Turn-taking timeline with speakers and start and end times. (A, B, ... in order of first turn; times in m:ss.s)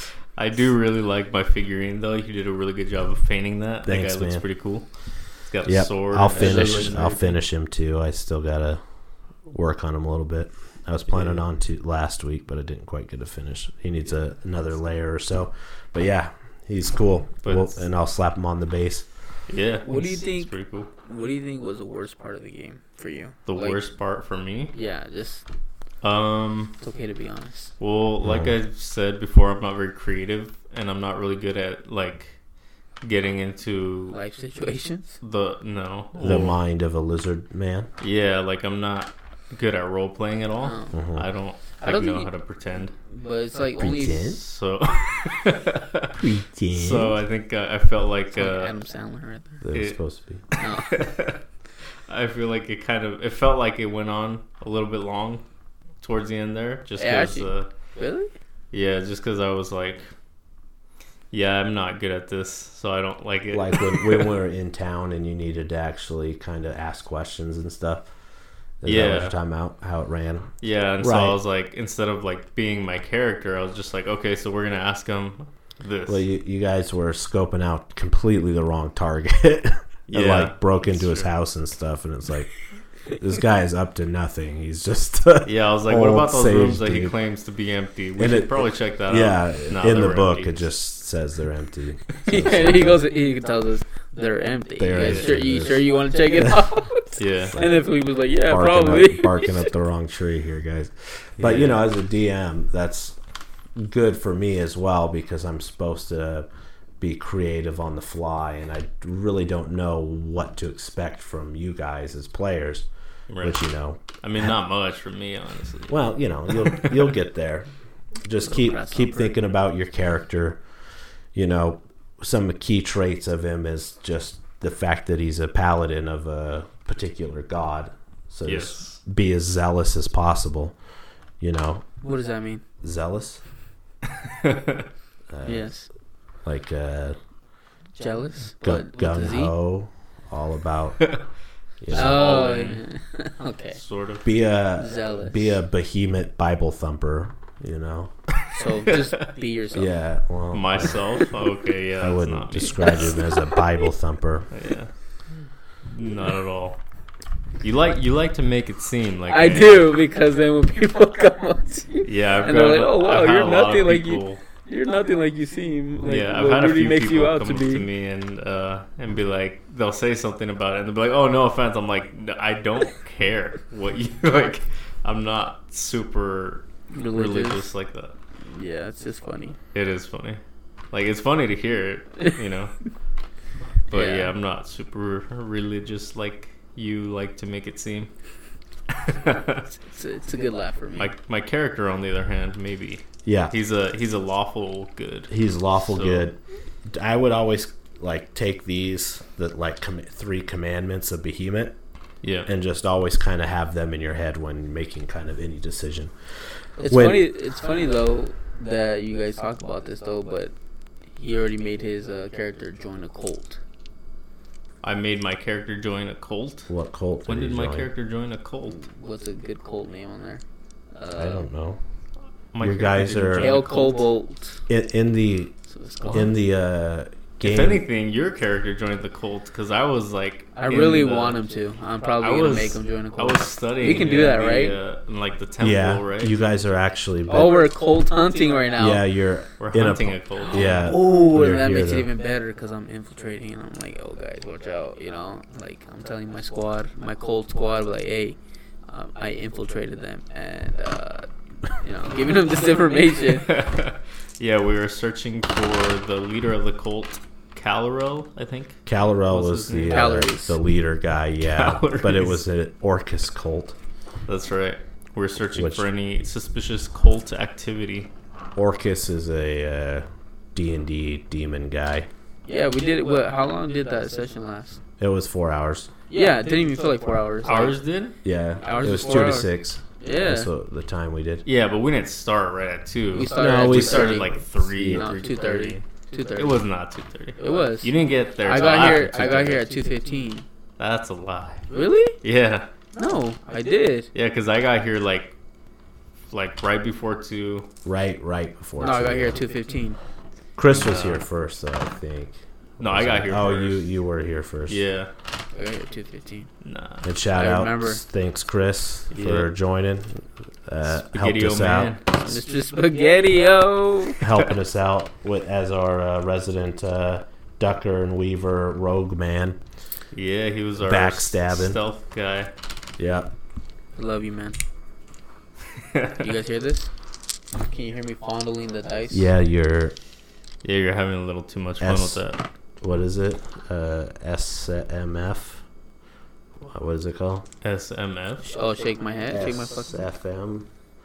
0:00.3-0:07.4 A
0:03.8-0:04.4 B
0:05.6-0:08.8 B
0:06.3-0:07.3 C
0:09.5-0:19.1 B
0:11.1-0:11.4 A
0:17.4-0:17.8 A
0:19.5-0:20.9 A
0:19.8-0:23.8 C
0:23.4-0:24.7 A
0:24.7-0:25.4 C
0:26.0-0:26.8 A
0:26.8-0:27.7 C
0:27.8-0:32.4 A
0:28.2-0:28.5 B
0:33.0-0:34.2 A
0:34.1-0:35.2 C
0:35.2-0:36.6 A
0:36.2-0:37.9 B
0:38.0-0:42.9 A
0:40.6-0:41.0 C
0:40.9-0:41.2 B
0:41.8-0:42.3 C
0:43.1-0:44.4 C
0:43.8-0:44.4 B
0:44.1-0:48.7 A
0:46.2-0:47.2 B
0:48.3-0:49.6 C
0:49.6-0:50.4 B
0:49.7-0:50.0 A
0:50.5-0:51.4 A
0:50.6-0:51.0 C
0:52.1-0:55.4 A
0:56.0-0:57.7 A
0:57.0-0:58.3 C
0:58.7-1:00.1 A
1:01.3-1:04.3 A
1:03.5-1:08.1 B
1:08.8-1:11.4 B
1:08.8-1:09.4 A
1:10.6-1:16.2 A
1:16.1-1:22.5 B
1:20.1-1:21.3 A
1:23.1-1:27.1 B
1:25.4-1:30.7 A
1:28.2-1:33.0 B
1:32.2-1:39.7 C
1:34.8-1:35.8 B
1:35.0-1:35.4 A
1:37.2-1:37.6 A
1:37.5-1:37.8 B
1:38.5-1:43.2 B
1:41.4-1:41.9 A
1:43.7-1:46.5 B
1:47.0-1:52.9 B
1:53.3-1:53.6 A
1:53.4-1:54.6 B
1:54.2-1:57.1 A
1:55.9-1:57.7 B
1:58.2-2:00.6 B
1:58.4-1:59.4 C
2:01.3-2:10.8 B
2:08.4-2:09.0 A
2:11.4-2:11.8 B
2:12.0-2:12.6 C
2:12.8-2:13.4 B
2:14.1-2:14.9 A
2:15.3-2:15.7 B
2:15.4-2:15.9 C
2:16.4-2:17.2 B
2:18.0-2:19.5 C
2:18.6-2:21.0 B
2:21.8-2:22.6 B
2:21.9-2:22.8 A
2:21.9-2:23.8 C
2:23.7-2:24.2 A
2:24.2-2:28.1 B
2:24.8-2:25.6 C
2:28.5-2:29.9 C
2:29.7-2:31.0 B
2:30.5-2:33.3 A
2:32.0-2:34.5 B
2:33.0-2:33.4 C
2:34.5-2:34.9 A
2:35.8-2:36.8 A
2:37.6-2:39.8 A
2:39.3-2:47.9 C
2:42.0-2:44.4 A
2:46.0-2:58.2 A
2:56.9-2:57.7 C
2:58.4-2:59.6 C
2:59.7-3:02.7 A
3:03.9-3:04.3 C
3:03.9-3:08.1 A
3:08.9-3:09.7 A
3:09.9-3:11.1 C
3:11.0-3:16.3 A
3:13.2-3:13.5 B
3:15.3-3:16.4 B
3:16.9-3:21.8 B
3:22.2-3:22.5 A
3:22.4-3:26.1 B
3:26.8-3:30.5 C
3:26.8-3:27.2 B
3:31.2-3:33.6 C
3:34.8-3:36.7 A
3:36.7-3:37.9 B
3:37.2-3:38.8 A
3:38.8-3:41.5 C
3:41.1-3:41.8 B
3:42.5-3:44.0 A
3:42.6-3:43.6 B
3:43.3-3:44.6 C
3:44.7-3:45.5 B
3:45.7-3:46.3 C
3:46.0-3:46.3 A
3:46.1-3:47.8 B
3:47.4-3:51.4 A
3:50.6-3:54.8 C
3:52.2-3:56.4 A
3:55.6-3:57.6 B
3:57.3-3:59.0 C
3:58.8-4:02.1 B
3:59.6-4:00.8 A
4:00.5-4:08.4 C
4:08.9-4:13.6 C
4:13.3-4:20.2 A
4:18.8-4:23.8 B
4:19.9-4:20.6 C
4:21.5-4:22.4 A
4:24.2-4:28.1 A
4:25.5-4:25.8 B
4:28.6-4:32.1 B
4:32.5-4:34.8 C
4:35.0-4:35.9 B
4:36.1-4:37.8 C
4:37.4-4:38.2 A
4:38.2-4:41.4 B
4:38.6-4:40.5 C
4:41.4-4:49.6 A
4:43.1-4:46.6 C
4:43.3-4:45.1 B
4:47.4-4:50.4 C
4:50.8-4:52.7 A
4:51.7-4:52.2 C
4:52.9-4:54.1 C
4:54.1-4:55.4 A
4:56.3-4:57.7 A
4:57.8-4:59.4 B
4:58.8-5:00.0 C
5:00.6-5:04.8 B
5:00.7-5:01.2 A
5:02.8-5:03.8 A
5:04.7-5:05.1 A
5:05.5-5:06.5 C
5:06.6-5:07.1 A
5:07.0-5:11.9 B
5:07.3-5:08.0 C
5:09.1-5:09.5 A
5:10.8-5:12.2 A
5:12.2-5:14.2 C
5:14.2-5:19.6 B
5:20.1-5:22.5 A
5:20.8-5:21.8 B
5:23.0-5:23.3 B
5:23.9-5:24.6 C
5:25.7-5:26.3 A
5:26.2-5:26.9 C
5:27.5-5:29.3 C
5:29.1-5:29.9 B
5:30.6-5:32.4 A
5:31.8-5:32.2 B
5:32.8-5:35.6 B
5:36.6-5:37.5 B
5:37.6-5:38.5 A
5:38.4-5:40.0 C
5:39.3-5:40.7 B